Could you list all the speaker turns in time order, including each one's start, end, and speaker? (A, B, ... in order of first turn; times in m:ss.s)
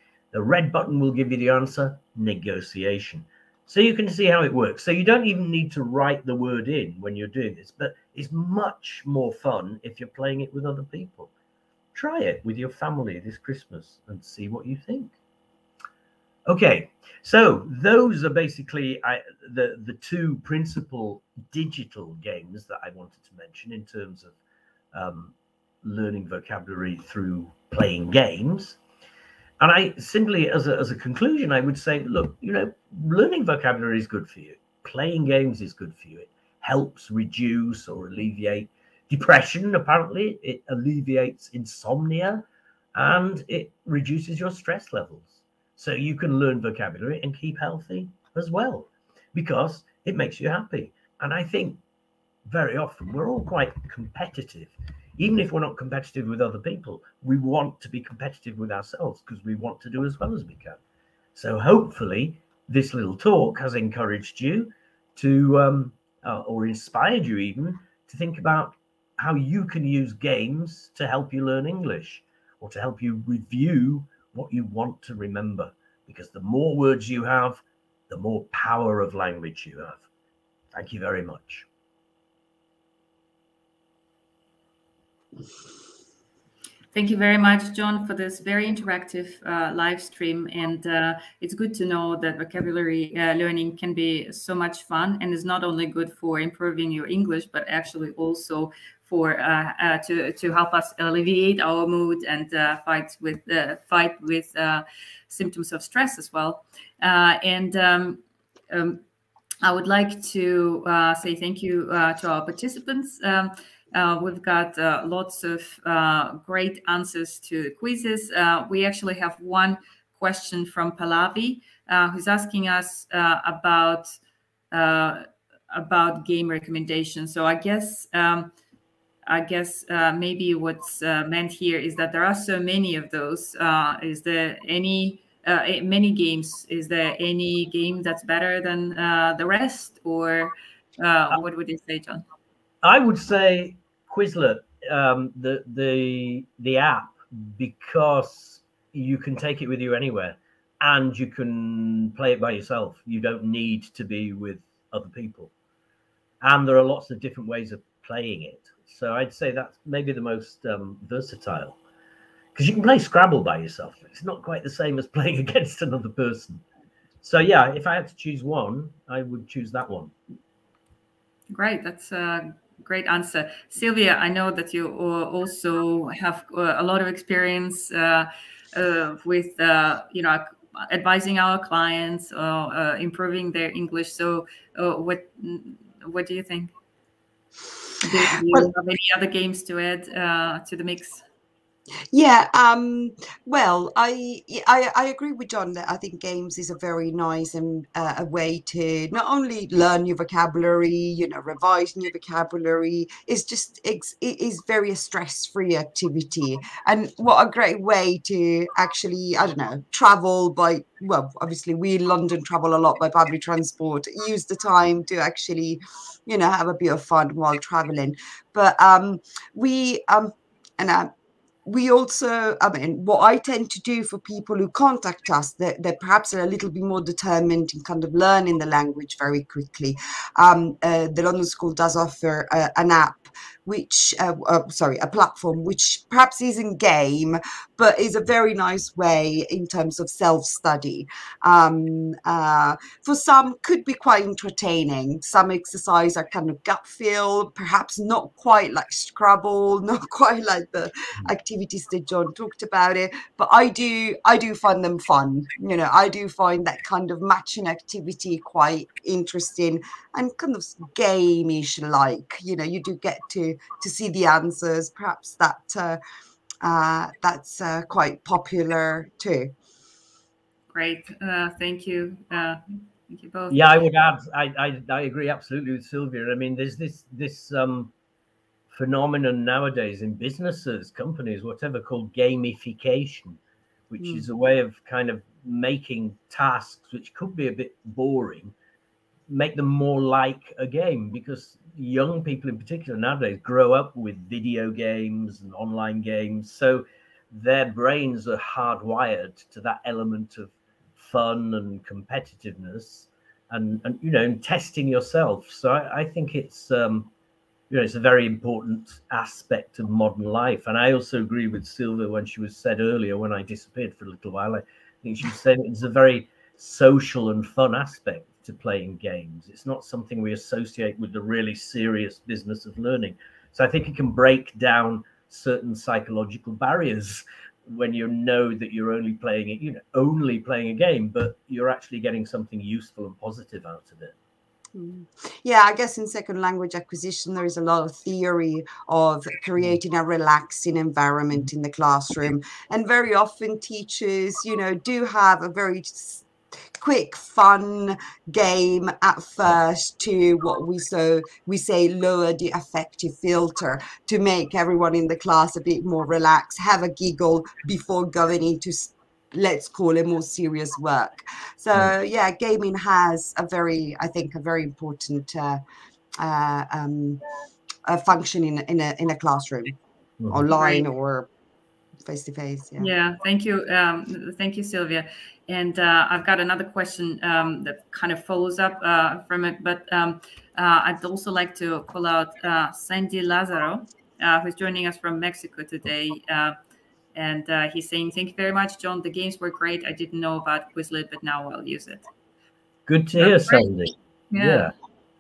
0:00.3-0:11.3 A
0:11.9-0:15.2 A
0:16.5-0:24.4 A
0:24.9-0:28.8 A
0:29.6-0:42.4 A
0:43.0-0:51.8 A
0:52.5-1:00.8 A
1:01.4-1:20.1 A
1:20.7-1:21.7 A
1:26.9-1:49.0 B
1:49.6-2:04.2 B
2:04.7-2:08.5 B
2:09.3-2:22.2 B
2:22.8-2:35.5 A
2:36.4-2:41.8 A
2:42.6-2:46.6 A
2:47.2-2:50.1 A
2:51.5-3:06.7 B
3:08.0-3:11.2 B
3:12.1-3:41.1 C
3:41.6-4:26.0 C
4:26.6-4:29.5 C
4:30.7-4:33.6 B
4:33.5-4:37.9 A
4:38.7-4:43.4 A
4:43.9-4:48.5 A
4:49.3-5:07.1 A
5:07.7-5:34.2 A
5:34.8-6:05.6 C
6:06.2-6:07.2 C
6:07.9-6:09.8 C
6:10.2-6:10.5 A
6:10.3-6:11.3 C
6:10.5-6:10.8 B
6:12.1-6:12.9 C
6:12.8-6:26.6 B
6:27.2-6:32.1 B
6:32.9-6:34.7 A
6:33.2-6:33.7 B
6:34.3-6:34.7 B